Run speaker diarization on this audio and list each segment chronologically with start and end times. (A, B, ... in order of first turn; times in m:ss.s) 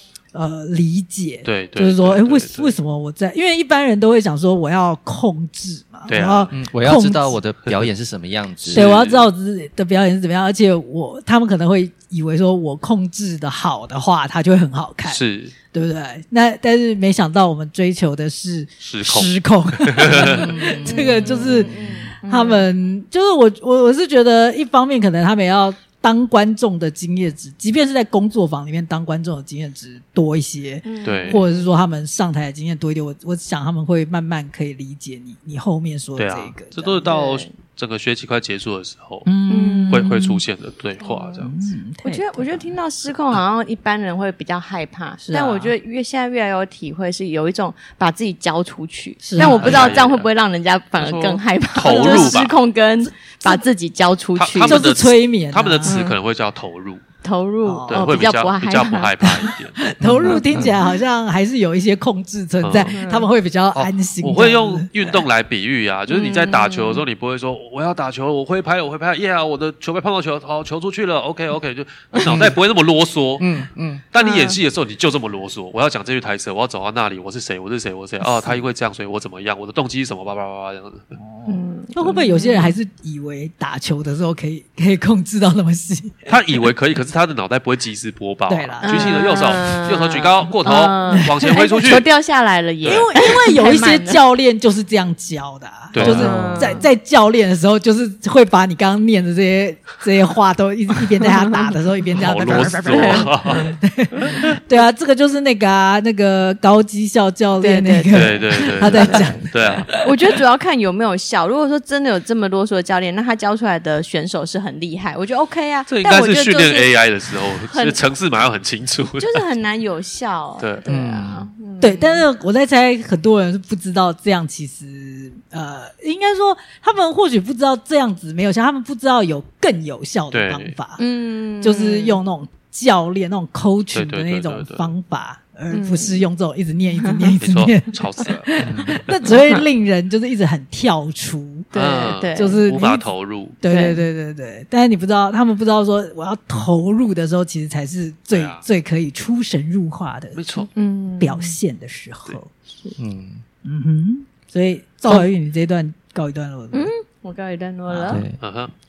0:00.3-0:07.4 A
0:01.4-0:02.8 B
0:06.1-0:06.6 B
0:06.5-0:08.9 C
0:08.6-0:15.2 A
0:08.7-0:09.3 B
0:15.1-0:15.5 B
0:15.7-0:37.0 A
0:18.8-0:20.6 B
0:20.1-0:21.6 C
0:20.8-0:22.7 D
0:30.8-0:31.7 D
0:31.0-0:31.4 B
0:36.2-0:39.3 B
0:37.0-0:37.5 D
0:39.2-0:40.4 A
0:39.5-0:40.0 D
0:39.9-0:41.5 B
0:41.0-0:41.5 D
0:41.4-0:42.7 A
0:42.0-0:54.9 D
0:45.2-0:45.7 A
0:49.2-0:49.9 A
0:49.4-0:50.3 B
0:51.0-0:52.6 B
0:51.8-0:52.4 A
0:54.4-0:57.0 B
0:54.7-0:56.0 A
0:55.9-0:56.2 D
0:57.2-0:59.2 D
0:57.7-0:58.2 A
0:57.9-1:00.4 B
0:59.2-1:05.1 A
1:00.0-1:00.8 C
1:00.6-1:00.9 D
1:02.6-1:03.0 B
1:02.9-1:03.3 D
1:03.7-1:13.5 B
1:06.1-1:07.0 D
1:12.3-1:12.5 C
1:13.4-1:14.0 C
1:14.1-1:21.1 B
1:14.2-1:14.6 D
1:21.2-1:26.3 A
1:21.4-1:22.8 D
1:26.3-1:32.1 B
1:28.5-1:29.4 A
1:28.8-1:34.2 D
1:31.1-1:31.9 A
1:32.8-1:50.2 A
1:35.9-1:36.8 B
1:36.0-1:36.9 D
1:41.2-1:41.7 D
1:42.1-1:43.7 B
1:42.8-1:43.7 D
1:47.6-1:49.4 D
1:48.1-1:49.9 B
1:50.0-1:56.9 D
1:55.9-1:59.4 B
1:57.5-1:58.0 D
1:59.2-2:02.3 D
2:00.9-2:01.5 C
2:01.8-2:11.0 A
2:10.3-2:10.8 B
2:11.0-2:12.2 D
2:11.6-2:21.7 A
2:13.9-2:14.9 B
2:15.7-2:16.3 D
2:17.0-2:17.3 D
2:17.4-2:18.6 B
2:18.6-2:19.0 C
2:21.7-2:22.6 D
2:21.7-2:23.6 B
2:22.4-2:30.4 A
2:23.7-2:24.0 D
2:28.3-2:28.6 B
2:30.4-2:30.7 B
2:30.7-2:31.6 D
2:31.2-2:32.5 A
2:33.0-2:33.4 C
2:33.6-2:36.9 A
2:36.7-2:38.2 D
2:37.9-2:38.2 A
2:38.0-2:38.4 C
2:38.4-2:38.7 B